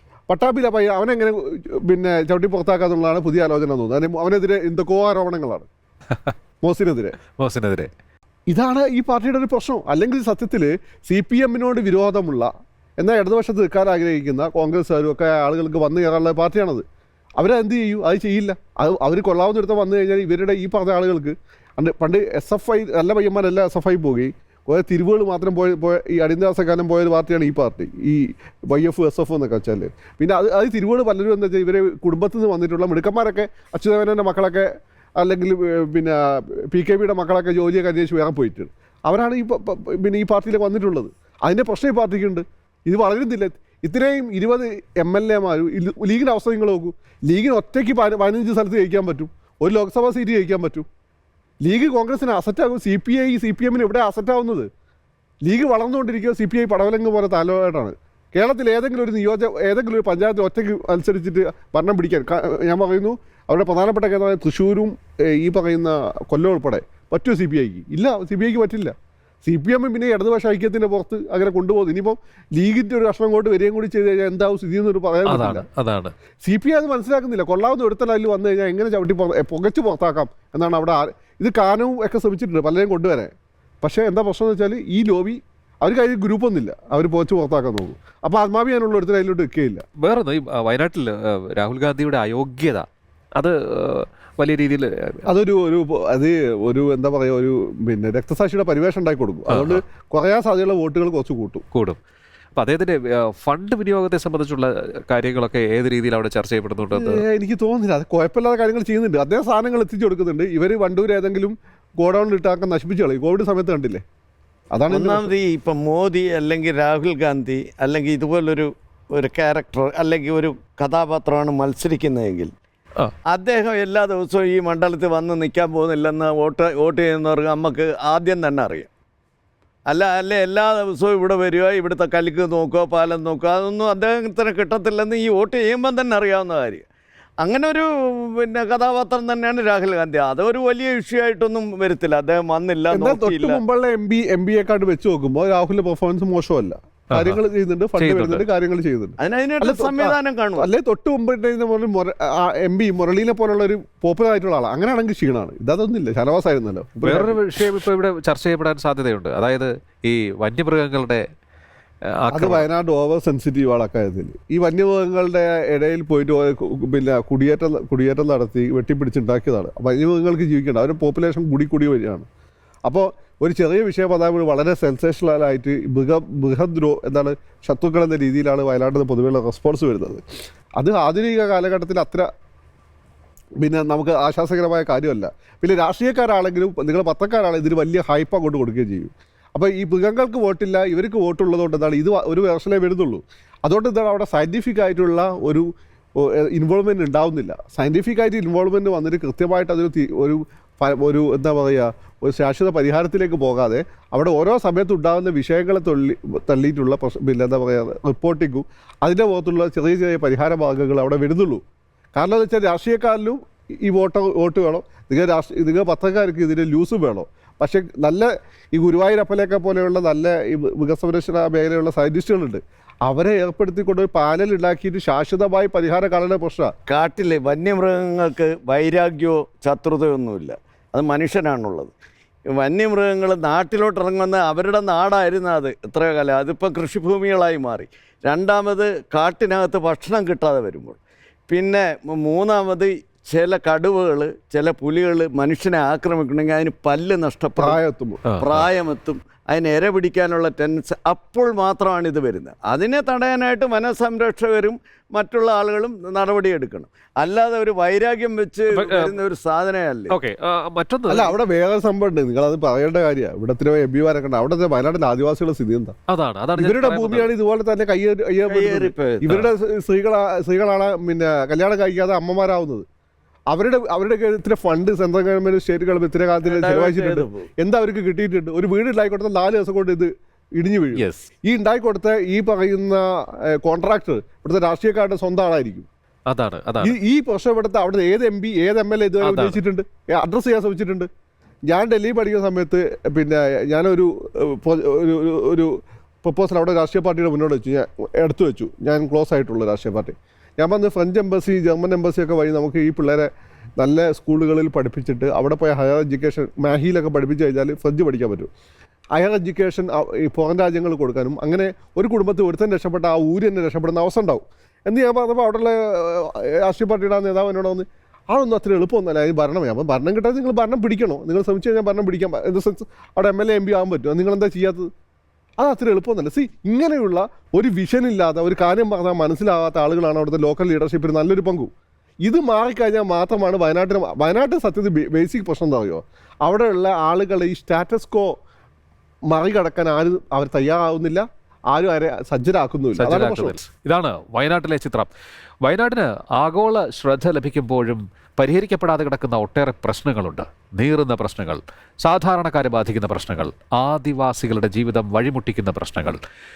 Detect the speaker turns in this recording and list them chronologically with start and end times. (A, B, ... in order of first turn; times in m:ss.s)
0:00.3-0:05.7 A
0:06.6-0:07.2 A
0:07.4-0:07.9 B
0:08.5-0:16.8 A
0:17.4-0:50.8 A
0:51.6-0:54.7 A
0:55.4-1:15.6 A
1:15.2-1:16.1 B
1:16.4-1:29.8 A
1:30.0-1:32.8 B
1:33.4-1:35.2 B
1:35.3-1:41.6 A
1:39.5-1:39.8 B
1:41.7-1:42.0 B
1:42.6-1:47.2 B
1:46.9-1:54.0 A
1:54.7-1:55.3 A
1:54.9-2:02.5 C
2:03.3-2:08.9 C
2:09.9-2:16.8 C
2:17.4-2:23.6 C
2:22.9-2:37.8 A
2:27.1-2:27.4 B
2:28.0-2:28.5 B
2:29.2-2:30.7 C
2:37.0-2:41.2 B
2:42.2-2:42.6 B
2:42.3-2:52.3 A
2:52.8-3:00.2 A
3:00.8-3:02.3 A
3:03.6-3:31.6 A
3:32.1-3:46.7 A
3:46.9-3:51.9 C
3:52.5-4:01.0 C
4:01.5-4:07.8 C
4:07.6-4:08.2 A
4:08.3-4:08.6 B
4:08.4-4:20.1 C
4:18.7-4:19.1 B
4:20.1-4:21.3 B
4:21.1-4:25.9 A
4:26.1-4:27.3 B
4:26.6-4:32.8 A
4:28.5-4:29.3 C
4:33.5-4:45.9 A
4:36.4-4:37.5 C
4:40.9-4:41.3 B
4:46.3-4:47.0 B
4:46.8-4:51.1 A
4:49.2-4:49.6 B
4:51.7-5:08.5 A
5:09.1-5:24.9 A
5:25.6-5:31.7 A
5:32.2-5:38.4 A
5:39.3-5:43.6 A
5:43.0-5:45.1 B
5:45.6-5:56.2 B